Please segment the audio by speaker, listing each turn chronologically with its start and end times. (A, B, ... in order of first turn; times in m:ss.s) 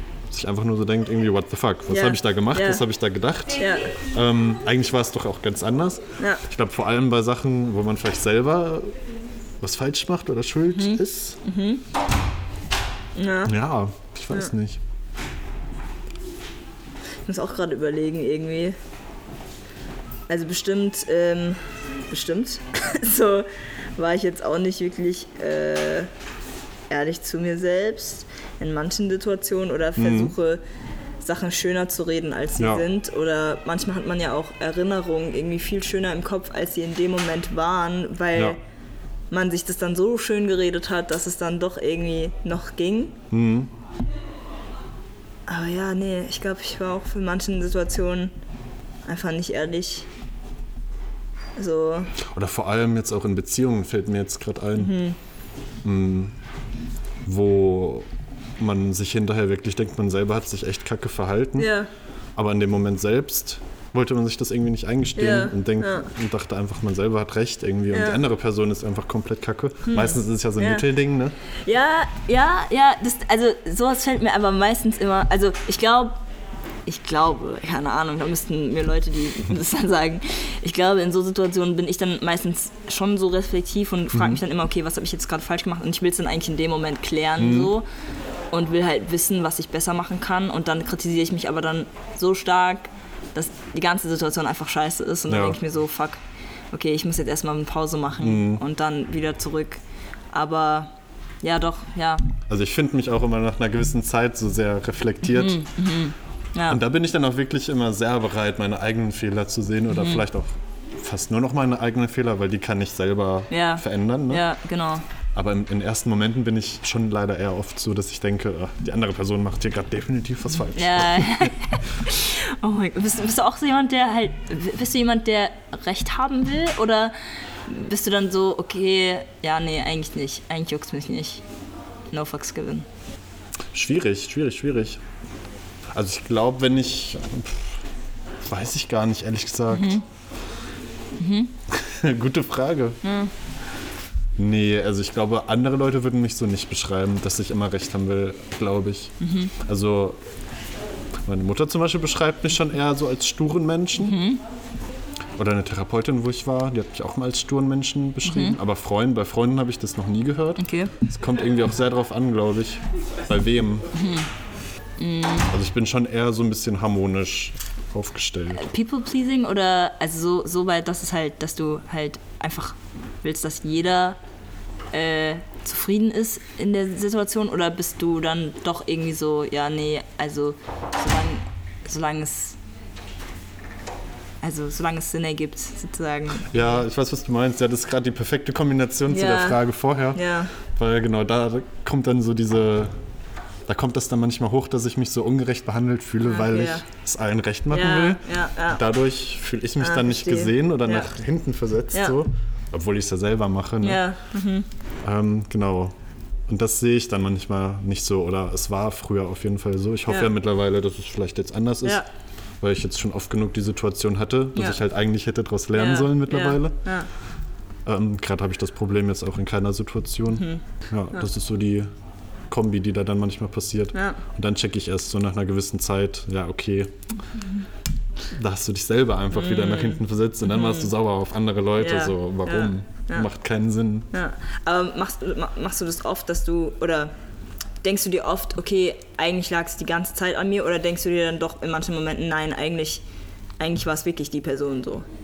0:00.3-0:09.0 A
0:01.9-0:02.8 B
0:03.6-0:03.8 B
0:09.6-0:11.4 A
0:10.7-0:11.8 B
0:13.2-0:13.5 B
0:13.4-0:14.8 A
0:17.2-0:18.8 B
0:20.3-0:26.1 B
0:26.9-0:30.6 B
0:30.0-0:30.3 A
0:31.2-0:38.6 B
0:32.6-0:32.8 A
0:39.3-0:43.2 B
0:43.3-0:43.7 A
0:45.5-0:48.3 B
0:49.0-0:50.1 B
0:51.6-0:52.1 B
0:52.2-0:54.9 A
0:54.8-0:55.2 B
0:55.8-0:56.4 A
0:57.2-0:58.1 A
0:58.6-1:01.7 A
1:01.6-1:01.9 B
1:02.4-1:11.3 A
1:05.2-1:06.1 B
1:07.9-1:08.2 B
1:09.9-1:10.8 B
1:11.6-1:16.2 B
1:16.9-1:27.8 B
1:24.1-1:24.4 A
1:27.4-1:27.7 A
1:28.5-1:36.2 B
1:35.3-1:35.6 A
1:36.7-1:39.8 B
1:38.2-1:38.6 A
1:40.3-1:40.9 B
1:41.4-1:42.3 B
1:42.5-1:45.6 A
1:45.2-1:46.8 B
1:46.7-1:54.4 A
1:49.9-1:50.2 B
1:53.5-1:55.0 B
1:55.3-2:01.5 A
2:00.7-2:07.1 B
2:07.6-2:11.4 B
2:12.1-2:12.8 B
2:13.7-2:15.0 A
2:15.9-2:17.8 A
2:18.5-2:20.0 A
2:19.7-2:20.0 B
2:21.2-2:21.5 B
2:21.7-2:23.0 A
2:23.0-2:23.3 B
2:24.4-2:30.2 A
2:29.2-2:29.5 B
2:31.2-2:34.2 A
2:34.0-2:34.4 B
2:35.4-2:43.9 A
2:38.2-2:38.6 B
2:40.6-2:40.9 B
2:43.9-2:44.3 B
2:45.0-2:45.5 B
2:45.5-2:48.7 A
2:48.6-2:54.2 B
2:54.9-3:02.6 B
3:04.4-3:06.8 B
3:06.4-3:12.9 A
3:09.1-3:09.6 B
3:10.1-3:10.5 B
3:13.7-3:24.0 A
3:16.2-3:16.8 B
3:17.7-3:18.8 B
3:19.8-3:21.1 B
3:23.8-3:24.7 B
3:25.0-3:26.0 A
3:26.5-3:32.0 A
3:32.6-3:36.8 A
3:35.7-3:37.1 B
3:37.8-3:41.9 A
3:40.3-3:40.6 B
3:42.5-3:46.9 A
3:43.9-3:44.2 B
3:48.3-3:54.1 A
3:49.3-3:50.9 B
3:51.8-3:53.3 B
3:54.1-3:57.1 B
3:57.8-4:03.0 B
4:03.6-4:05.0 B